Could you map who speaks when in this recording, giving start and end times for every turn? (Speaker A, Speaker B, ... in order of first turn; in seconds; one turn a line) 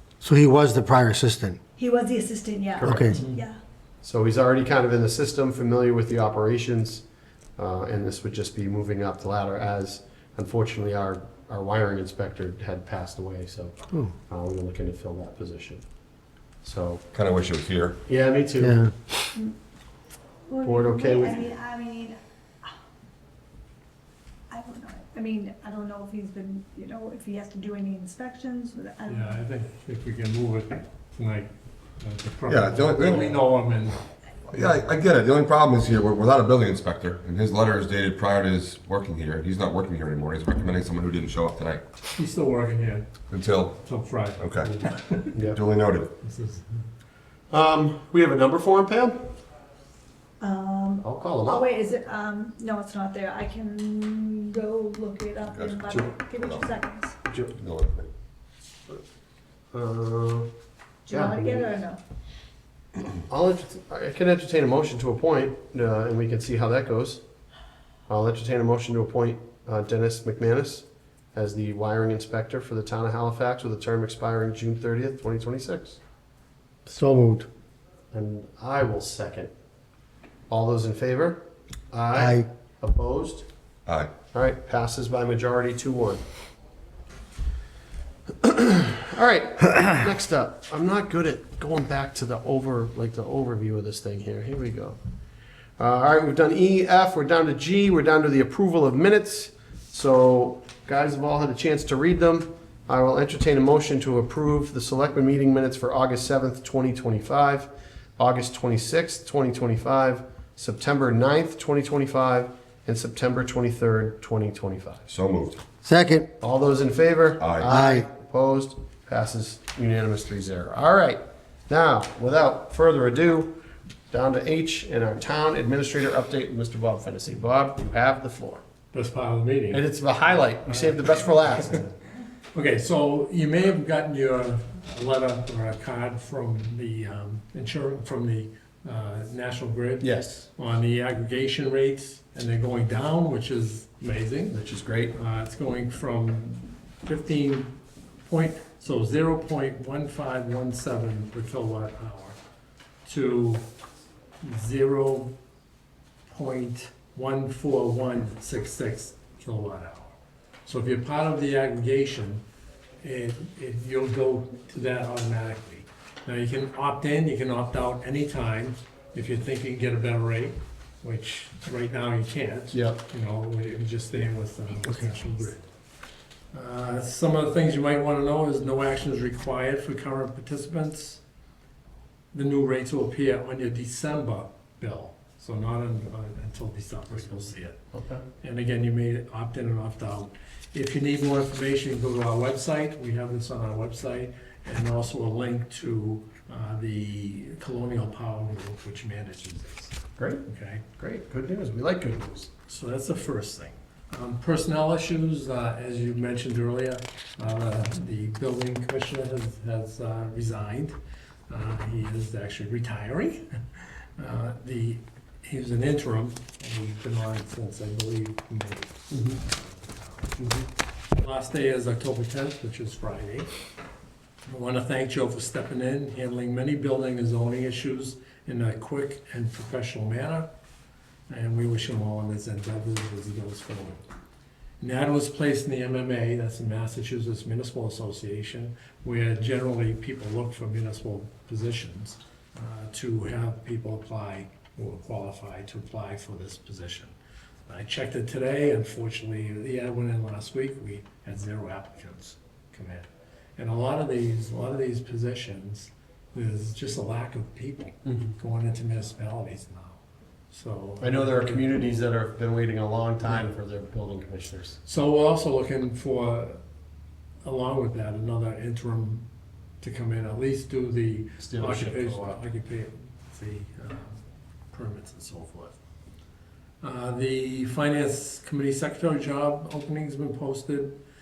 Speaker A: 0.2-1.6
Speaker B: 1.8-3.6
Speaker C: 2.8-3.1
Speaker A: 2.8-3.2
Speaker D: 3.1-3.4
Speaker C: 4.0-7.0
Speaker C: 7.6-15.8
Speaker C: 16.6-17.1
Speaker E: 17.1-18.0
Speaker C: 18.1-18.8
Speaker A: 18.6-18.9
Speaker B: 20.5-22.8
Speaker C: 20.6-21.4
Speaker B: 24.5-29.4
Speaker D: 29.1-34.0
Speaker E: 32.5-33.4
Speaker E: 34.5-41.8
Speaker D: 42.1-43.1
Speaker E: 43.3-43.8
Speaker D: 43.8-45.4
Speaker E: 44.4-44.7
Speaker C: 45.3-45.6
Speaker E: 45.5-46.1
Speaker D: 46.2-46.9
Speaker C: 47.5-49.2
Speaker B: 50.4-57.2
Speaker C: 51.0-51.6
Speaker E: 55.5-56.7
Speaker C: 57.3-57.5
Speaker E: 57.6-58.1
Speaker C: 59.7-60.5
Speaker B: 61.1-62.0
Speaker C: 61.1-61.7
Speaker C: 63.3-67.2
Speaker C: 68.1-76.0
Speaker A: 76.9-77.5
Speaker C: 78.1-79.5
Speaker C: 80.5-83.5
Speaker A: 82.2-82.5
Speaker E: 83.9-84.1
Speaker C: 84.3-86.2
Speaker C: 88.4-95.0
Speaker C: 95.8-115.1
Speaker E: 115.1-115.6
Speaker A: 115.8-116.3
Speaker C: 116.4-123.6
Speaker E: 117.4-117.7
Speaker A: 117.7-118.1
Speaker C: 124.1-128.6
Speaker D: 128.9-129.9
Speaker C: 129.7-131.9
Speaker D: 132.5-144.6
Speaker C: 140.0-140.5
Speaker C: 144.5-145.2
Speaker D: 145.1-152.4
Speaker D: 153.1-153.7
Speaker D: 154.4-155.4
Speaker D: 156.3-160.2
Speaker D: 160.7-162.4
Speaker D: 163.0-175.7
Speaker C: 172.7-173.0
Speaker D: 176.5-181.2
Speaker D: 182.3-187.8
Speaker C: 187.2-188.2
Speaker D: 188.4-200.8
Speaker C: 200.2-200.4
Speaker C: 201.0-202.5
Speaker D: 202.7-211.0
Speaker D: 211.5-220.5
Speaker C: 219.1-219.4
Speaker C: 220.4-220.7
Speaker D: 221.1-223.5
Speaker D: 224.5-230.5
Speaker D: 231.3-234.1
Speaker D: 234.8-247.1
Speaker D: 247.7-261.7
Speaker C: 261.0-264.8
Speaker D: 264.9-266.6
Speaker D: 267.4-269.3
Speaker D: 269.8-275.8
Speaker C: 271.4-272.4
Speaker D: 276.8-281.0